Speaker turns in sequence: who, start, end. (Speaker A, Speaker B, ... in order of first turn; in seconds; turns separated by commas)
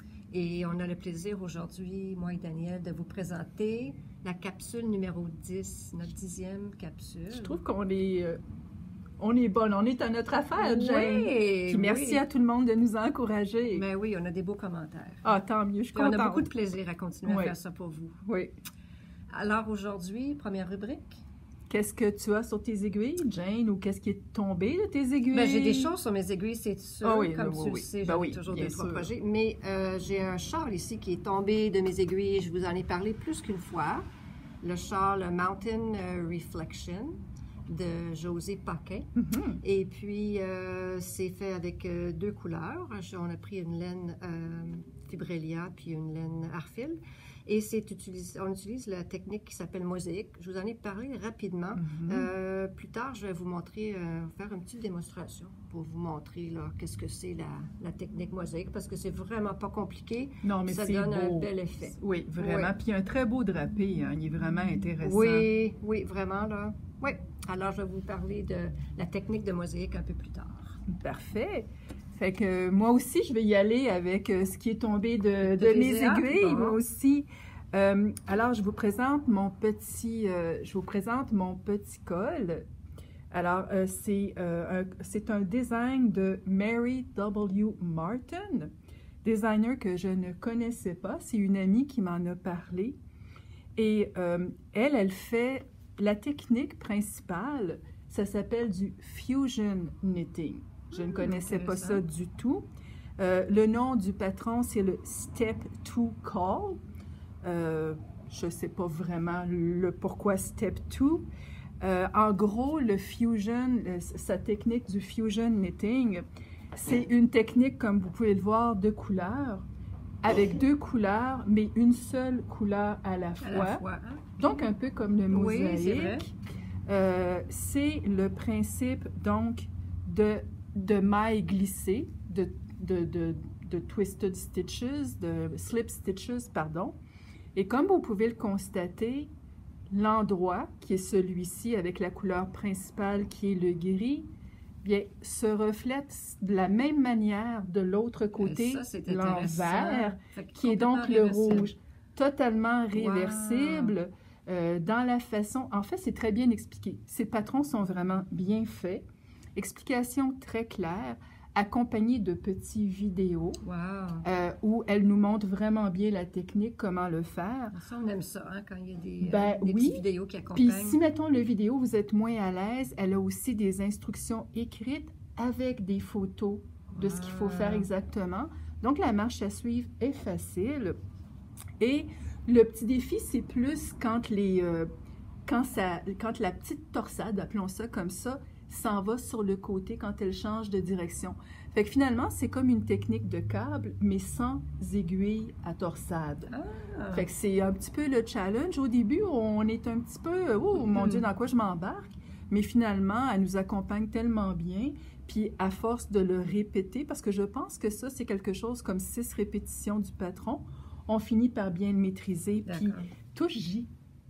Speaker A: 0.3-7.6, Speaker B: 7.3-8.4, Speaker B: 9.2-13.8, Speaker A: 10.5-12.2, Speaker A: 13.7-15.3, Speaker B: 15.2-16.5, Speaker A: 15.9-18.2, Speaker B: 17.2-17.5, Speaker B: 18.2-18.5, Speaker A: 19.3-21.2, Speaker B: 21.7-25.9, Speaker A: 25.3-34.0, Speaker B: 27.0-29.1, Speaker A: 34.6-39.1, Speaker B: 39.1-39.6, Speaker A: 39.6-62.7, Speaker B: 51.8-52.3, Speaker B: 60.4-65.5, Speaker A: 65.0-70.8, Speaker B: 70.9-82.7, Speaker A: 75.4-76.8, Speaker B: 83.3-88.7, Speaker B: 89.2-93.0, Speaker B: 93.8-102.7, Speaker A: 100.9-102.0, Speaker B: 103.2-106.8, Speaker B: 107.4-111.3, Speaker B: 111.8-119.7, Speaker B: 120.2-123.8, Speaker A: 123.4-124.3, Speaker B: 124.4-126.3, Speaker A: 125.3-126.2, Speaker B: 126.9-137.0, Speaker B: 137.5-139.3, Speaker B: 139.9-144.3, Speaker B: 144.8-159.0, Speaker A: 148.4-151.7, Speaker A: 152.9-153.9, Speaker B: 159.6-163.6, Speaker A: 163.6-164.2, Speaker B: 164.2-167.7, Speaker A: 167.7-171.0, Speaker B: 169.2-181.0, Speaker A: 176.9-177.9, Speaker B: 181.8-184.9, Speaker B: 185.4-196.5, Speaker A: 196.5-197.3, Speaker B: 197.1-213.9, Speaker A: 200.9-201.2, Speaker A: 212.6-213.1